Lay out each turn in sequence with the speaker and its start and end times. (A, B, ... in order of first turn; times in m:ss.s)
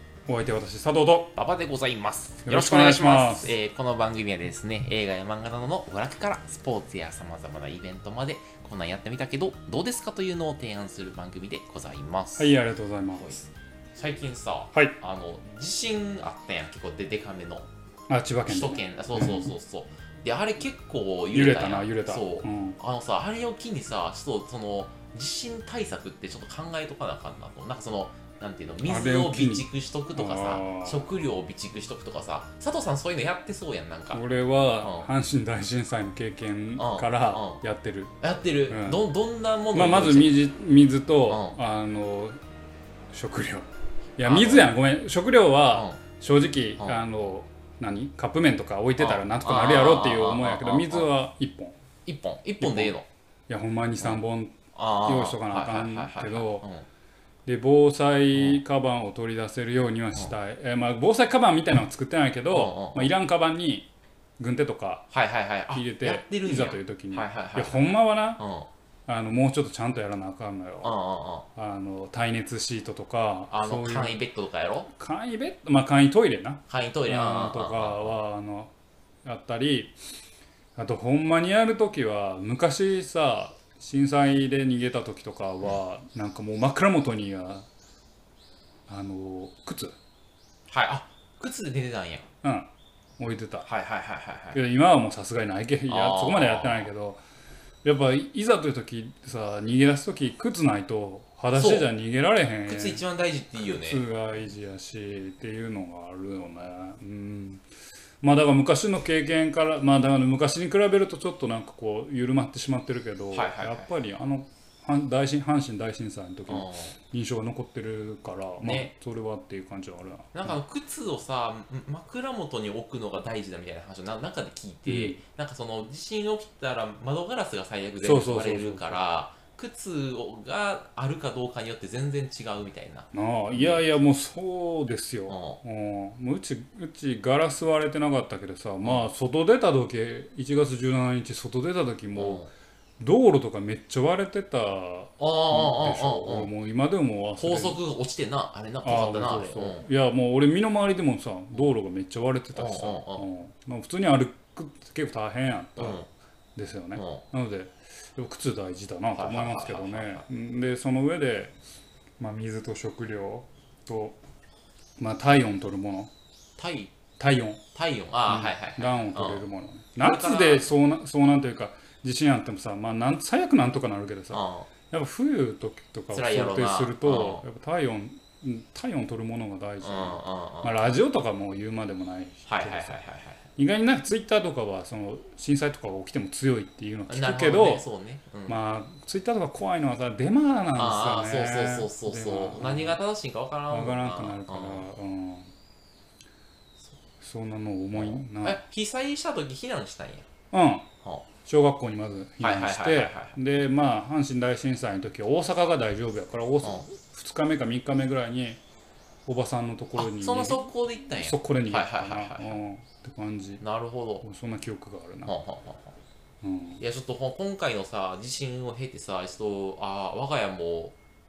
0:00.3-0:01.4 A
0:01.4-0:12.6 B
0:02.5-0:03.6 A
0:12.4-0:13.4 A
0:13.2-0:17.7 B
0:18.1-0:19.5 A
0:18.5-0:34.2 B
0:21.3-0:22.8 A
0:28.8-0:31.1 A
0:34.1-0:38.1 A
0:34.8-0:35.1 B
0:36.8-0:37.6 B
0:38.2-0:40.3 B
0:38.7-0:39.0 A
0:39.7-0:42.4 A
0:41.3-0:41.6 B
0:43.1-0:51.8 A
0:44.2-0:44.7 B
0:45.7-0:46.0 B
0:49.0-0:51.1 B
0:52.1-0:53.1 B
0:52.6-0:52.9 A
0:53.5-0:56.7 A
0:54.8-0:56.9 B
0:57.5-1:03.9 A
0:58.3-0:58.6 B
1:02.5-1:03.1 B
1:04.4-1:05.1 A
1:05.1-1:08.7 B
1:05.7-1:08.4 A
1:09.1-1:11.0 A
1:10.8-1:11.5 B
1:11.6-1:14.2 A
1:13.5-1:14.9 B
1:15.0-1:18.7 A
1:16.7-1:18.2 B
1:19.2-1:20.0 A
1:20.8-1:27.7 A
1:28.9-1:30.0 A
1:30.7-1:32.3 B
1:32.4-1:33.7 A
1:33.6-1:34.6 B
1:34.5-1:37.2 A
1:35.9-1:36.9 B
1:37.8-1:43.0 A
1:41.6-1:41.9 B
1:42.7-1:44.0 B
1:43.6-1:47.6 A
1:48.2-2:00.6 A
1:53.3-1:53.9 B
1:56.5-1:57.0 B
1:58.6-1:58.9 B
2:00.3-2:13.8 B
2:04.9-2:05.2 A
2:08.0-2:09.0 A
2:13.1-2:22.4 A
2:15.3-2:15.6 B
2:18.8-2:19.1 B
2:22.2-2:22.5 B
2:23.0-2:27.8 A
2:25.2-2:26.5 B
2:27.4-2:29.8 B
2:28.8-2:36.0 A
2:32.5-2:33.3 B
2:35.8-2:36.1 B
2:36.6-2:41.6 A
2:37.0-2:37.3 B
2:39.2-2:40.3 B
2:42.2-2:44.2 A
2:45.0-2:46.1 A
2:46.6-2:46.9 B
2:47.2-2:47.6 A
2:47.8-2:49.4 B
2:48.3-3:03.0 A
2:50.0-2:50.7 B
2:54.3-2:54.7 B
2:56.1-2:57.4 B
2:59.8-3:01.0 B
3:02.5-3:03.5 B
3:03.6-3:07.8 A
3:07.1-3:08.6 B
3:08.5-3:13.0 A
3:10.8-3:14.9 B
3:13.7-3:15.5 A
3:17.2-3:18.6 A
3:17.9-3:20.3 B
3:20.5-3:20.9 A
3:21.4-3:28.6 A
3:22.4-3:23.4 B
3:29.3-3:33.6 A
3:30.0-3:32.6 B
3:33.6-3:34.2 B
3:34.2-3:35.3 A
3:35.2-3:36.0 B
3:36.4-3:36.8 A
3:36.8-3:41.0 B